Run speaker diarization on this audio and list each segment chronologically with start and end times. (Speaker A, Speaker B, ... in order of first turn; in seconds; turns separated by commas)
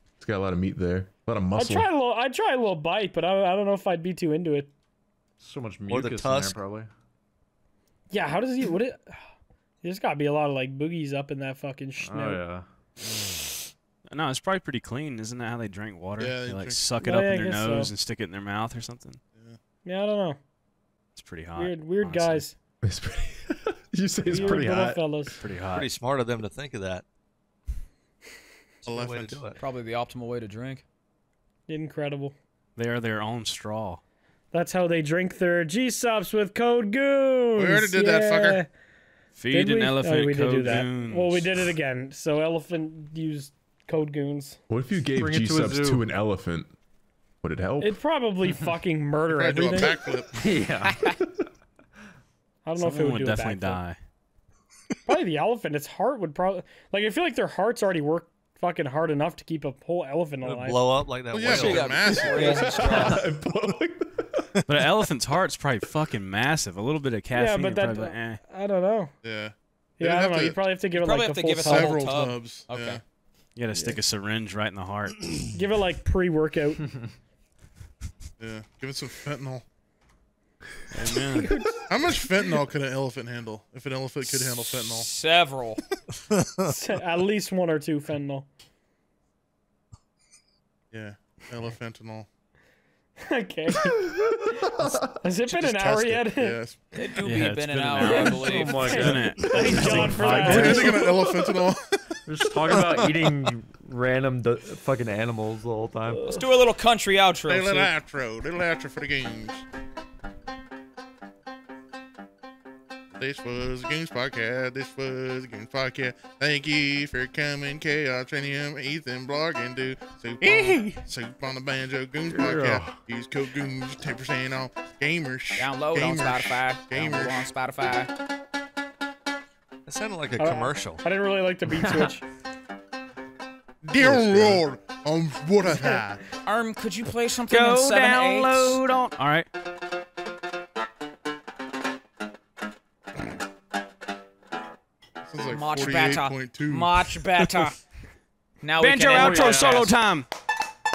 Speaker A: 0.2-1.9, Speaker B: 1.6-4.7, Speaker C: 5.4-6.9, Speaker D: 5.9-6.6, Speaker B: 8.1-9.2, Speaker B: 9.8-12.4, Speaker C: 12.0-12.7, Speaker E: 14.1-19.2, Speaker F: 16.2-16.8, Speaker B: 17.0-17.9, Speaker B: 19.9-20.4, Speaker E: 21.1-22.4, Speaker B: 21.6-22.5, Speaker A: 22.8-25.3, Speaker B: 24.3-25.4, Speaker E: 24.4-24.7, Speaker E: 25.4-25.9, Speaker D: 25.7-27.1, Speaker D: 28.8-29.6, Speaker F: 28.9-29.4, Speaker G: 29.6-30.8, Speaker B: 31.7-32.4, Speaker E: 32.8-34.0, Speaker B: 34.5-38.7, Speaker F: 37.6-38.6, Speaker E: 39.4-41.6, Speaker B: 39.5-44.6, Speaker A: 44.7-46.7, Speaker C: 45.2-46.0, Speaker A: 47.4-48.0, Speaker B: 47.8-50.0, Speaker F: 49.3-50.4, Speaker C: 50.3-51.0, Speaker G: 50.8-51.2, Speaker B: 52.6-53.8, Speaker E: 52.8-54.0, Speaker B: 55.0-61.0, Speaker D: 60.4-62.3, Speaker F: 61.3-62.7, Speaker G: 61.4-63.3, Speaker B: 62.3-63.0, Speaker A: 62.4-64.5, Speaker E: 64.7-68.4, Speaker B: 67.3-69.1, Speaker F: 69.2-70.6, Speaker B: 70.0-71.9, Speaker G: 70.9-73.0, Speaker F: 71.6-73.0, Speaker E: 73.5-75.4, Speaker B: 75.5-76.9, Speaker F: 78.4-79.6, Speaker E: 80.9-81.5, Speaker B: 81.4-82.1, Speaker F: 81.9-85.1, Speaker G: 84.3-85.8, Speaker D: 86.4-86.7, Speaker B: 86.6-88.5, Speaker F: 90.9-92.3, Speaker B: 93.2-96.6, Speaker A: 93.9-95.2, Speaker F: 95.5-96.9, Speaker G: 96.9-99.1, Speaker E: 97.2-101.0, Speaker B: 98.0-101.1, Speaker C: 98.5-100.8, Speaker A: 99.9-101.3, Speaker F: 100.4-102.2, Speaker C: 102.3-106.4, Speaker D: 102.7-103.0, Speaker G: 106.2-107.9, Speaker F: 107.5-109.6, Speaker F: 113.2-127.5, Speaker D: 120.4-120.9, Speaker C: 122.3-123.0, Speaker G: 125.6-128.1, Speaker D: 129.9-131.0, Speaker B: 130.4-132.2, Speaker C: 131.8-132.1, Speaker F: 133.8-136.2, Speaker D: 134.2-134.6, Speaker G: 136.4-138.8, Speaker E: 137.5-139.5, Speaker F: 145.2-147.0, Speaker G: 145.4-147.8, Speaker G: 148.6-149.9, Speaker E: 148.8-150.3, Speaker C: 149.1-149.9